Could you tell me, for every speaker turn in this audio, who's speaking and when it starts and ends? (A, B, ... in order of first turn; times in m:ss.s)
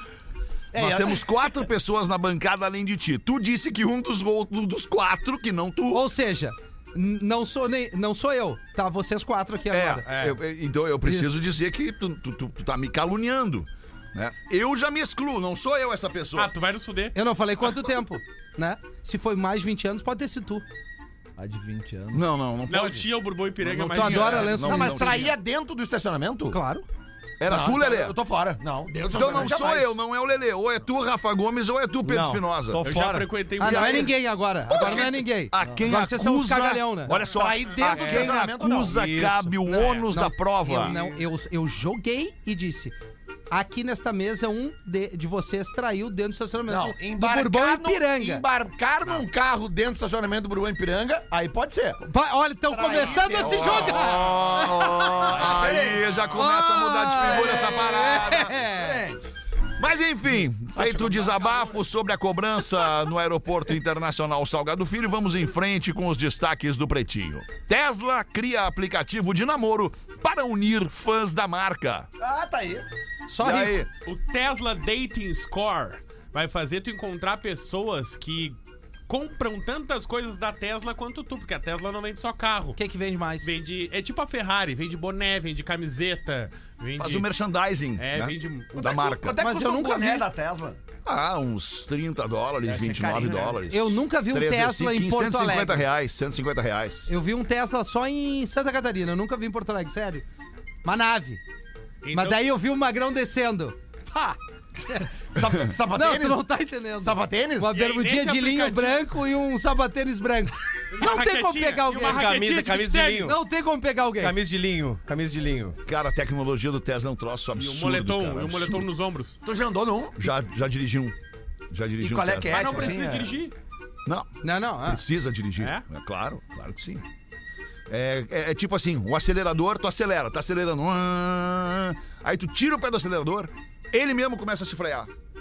0:00.7-0:01.2 A
0:00.7-0:06.0 B
0:05.9-0:10.0 C
0:09.7-0:16.5 B
0:10.0-0:10.4 D
0:11.0-0:11.3 C
0:16.3-0:17.2 D
0:17.1-0:20.6 C
0:21.4-0:22.2 A
0:22.1-0:25.3 B
0:22.7-0:24.6 D
0:23.9-0:25.3 C
0:24.6-0:26.6 A
0:26.5-0:26.8 C
0:27.4-0:28.2 B
0:27.4-0:29.9 A
0:29.1-0:32.8 B
0:32.0-0:33.3 E
0:32.8-0:34.1 D
0:33.6-0:37.2 C
0:33.6-0:34.1 B
0:34.7-0:40.9 B
0:37.2-0:39.0 A
0:37.9-0:38.3 E
0:38.9-0:39.5 E
0:39.6-0:42.9 C
0:43.5-0:48.4 C
0:46.6-0:52.0 A
0:52.0-0:55.6 C
0:52.7-0:54.6 A
0:53.2-0:58.6 B
0:55.2-0:56.2 A
0:56.3-0:59.0 C
0:57.2-0:59.3 A
0:59.8-1:12.1 B
1:00.7-1:01.8 A
1:12.2-1:12.9 A
1:13.3-1:13.8 C
1:13.4-1:13.9 B
1:14.0-1:18.6 D
1:19.1-1:22.8 D
1:22.8-1:23.5 C
1:23.4-1:27.3 D
1:27.0-1:29.4 B
1:28.0-1:28.9 D
1:28.8-1:30.8 A
1:29.4-1:30.2 C
1:31.0-1:37.1 B
1:32.6-1:33.6 A
1:33.7-1:35.8 C
1:37.1-1:40.2 C
1:40.8-1:41.4 C
1:42.0-1:42.4 D
1:42.1-1:45.1 C
1:45.3-1:46.4 A
1:45.9-1:52.3 C
1:47.0-1:47.7 A
1:47.7-1:49.1 D
1:50.9-1:53.3 D
1:52.0-1:53.4 E
1:53.2-1:54.4 C
1:54.2-1:55.8 E
1:55.8-1:58.9 B
1:57.6-1:59.4 D
1:59.4-2:00.2 A
2:00.2-2:01.1 B
2:01.7-2:03.0 B
2:02.0-2:03.4 A
2:02.5-2:03.5 D
2:04.4-2:05.0 C
2:04.8-2:07.0 B
2:05.6-2:05.8 D
2:07.9-2:15.1 B